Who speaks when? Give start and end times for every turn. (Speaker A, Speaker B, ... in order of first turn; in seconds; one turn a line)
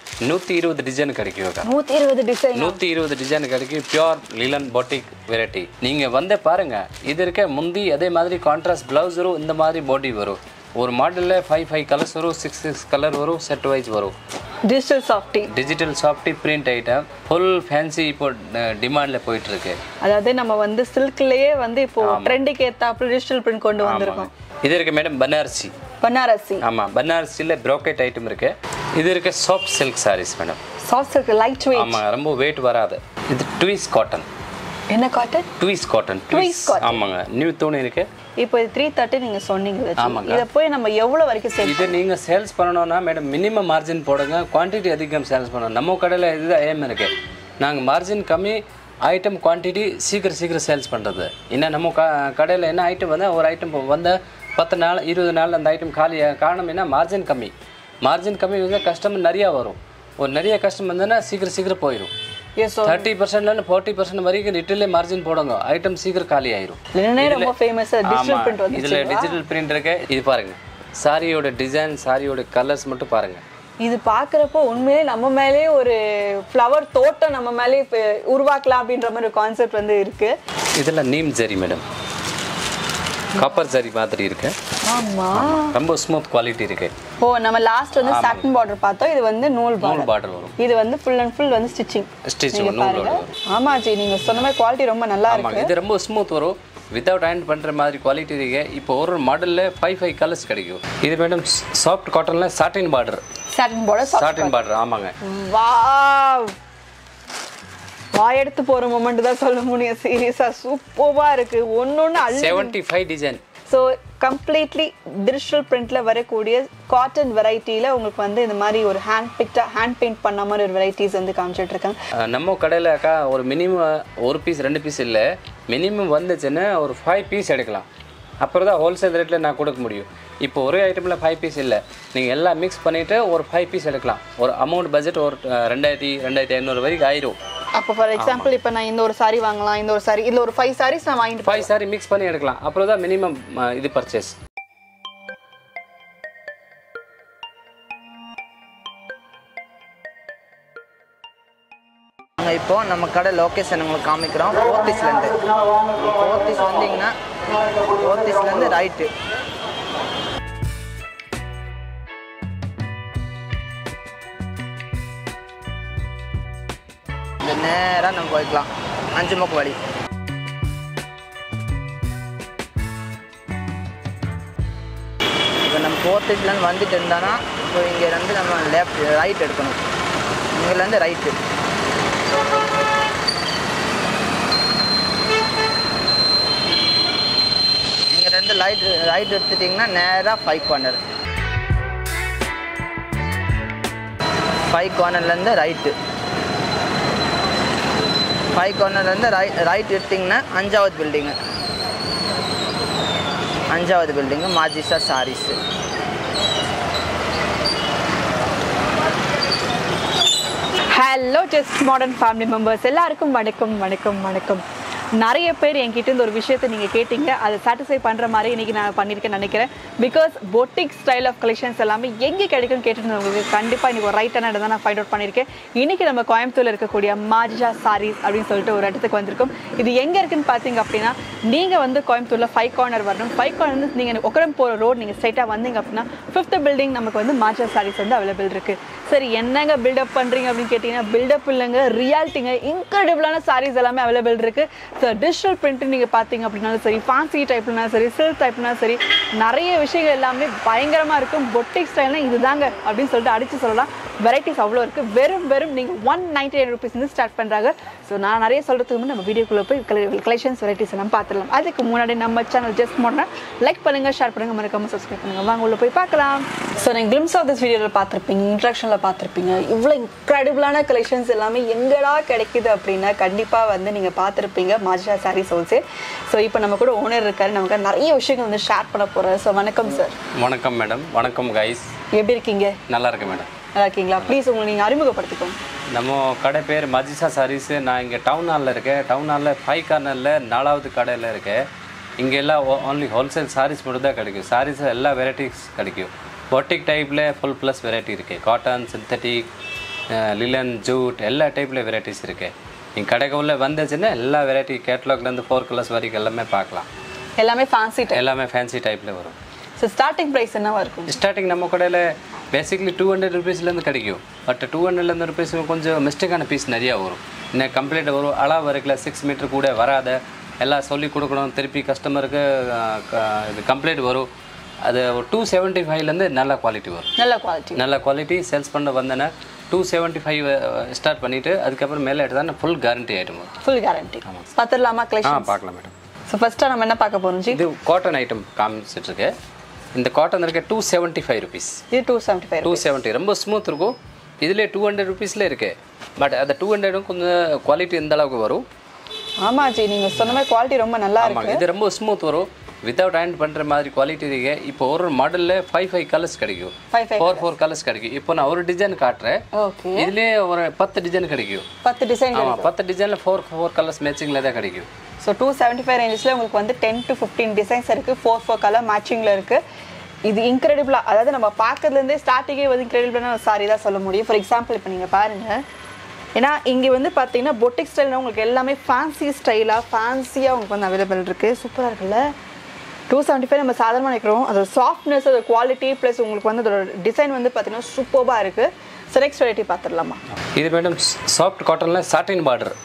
Speaker A: 0.2-1.7
Speaker B: 1.6-2.8
Speaker A: 2.5-14.1
Speaker B: 14.7-15.5
Speaker A: 15.5-19.8
Speaker B: 20.0-24.3
Speaker A: 22.0-22.4
Speaker A: 23.8-25.7
Speaker B: 26.0-26.6
Speaker A: 26.6-30.6
Speaker B: 30.8-32.0
Speaker A: 31.7-34.3
Speaker B: 34.9-35.5
Speaker A: 35.6-38.1
Speaker B: 36.3-37.0
Speaker B: 38.4-42.0
Speaker A: 40.0-40.5
Speaker A: 41.6-62.1
Speaker B: 62.6-63.1
Speaker A: 62.8-67.5
Speaker B: 66.9-69.4
Speaker A: 68.0-73.4
Speaker B: 73.8-80.3
Speaker A: 80.8-81.8
Speaker A: 83.3-84.5
Speaker B: 84.8-85.8
Speaker A: 85.3-86.9
Speaker B: 87.2-95.7
Speaker A: 88.0-88.5
Speaker A: 89.8-90.5
Speaker A: 92.2-93.3
Speaker A: 95.3-103.2
Speaker B: 103.5-104.5
Speaker A: 104.0-105.1
Speaker B: 105.2-106.5
Speaker B: 108.1-112.7
Speaker A: 112.2-113.4
Speaker B: 113.7-122.0
Speaker A: 122.1-127.8
Speaker A: 128.4-137.4
Speaker B: 137.8-141.7
Speaker A: 138.2-138.5
Speaker A: 141.4-144.4
Speaker C: 152.4-157.1
Speaker C: 157.8-159.1
Speaker C: 167.4-169.8
Speaker C: 175.6-179.8
Speaker C: 180.5-181.3
Speaker C: 188.1-191.0
Speaker C: 194.7-195.9
Speaker C: 198.5-201.4
Speaker C: 203.7-205.6
Speaker B: 210.9-214.6
Speaker B: 215.1-280.1
Speaker A: 280.3-281.9
Speaker B: 282.1-282.8
Speaker A: 282.9-283.5
Speaker B: 283.7-285.6
Speaker A: 285.9-291.7
Speaker A: 292.2-299.5
Speaker A: 300.1-306.9
Speaker B: 307.4-308.2
Speaker A: 308.1-309.4
Speaker B: 309.8-311.2
Speaker A: 311.1-324.3
Speaker A: 324.8-327.1
Speaker B: 327.2-327.8
Speaker A: 327.7-333.5
Speaker B: 333.6-335.5
Speaker A: 335.2-335.9
Speaker B: 336.3-337.6
Speaker A: 337.5-339.3
Speaker A: 339.9-341.8
Speaker B: 341.9-342.9
Speaker A: 342.6-348.6
Speaker B: 349.4-351.6
Speaker A: 351.2-359.4
Speaker B: 356.9-357.5
Speaker B: 359.5-360.1
Speaker A: 359.9-361.7
Speaker B: 361.8-362.7
Speaker A: 362.3-364.9
Speaker B: 365.2-369.6
Speaker B: 370.2-375.6
Speaker B: 376.4-382.3
Speaker B: 383.1-390.2
Speaker A: 390.5-392.8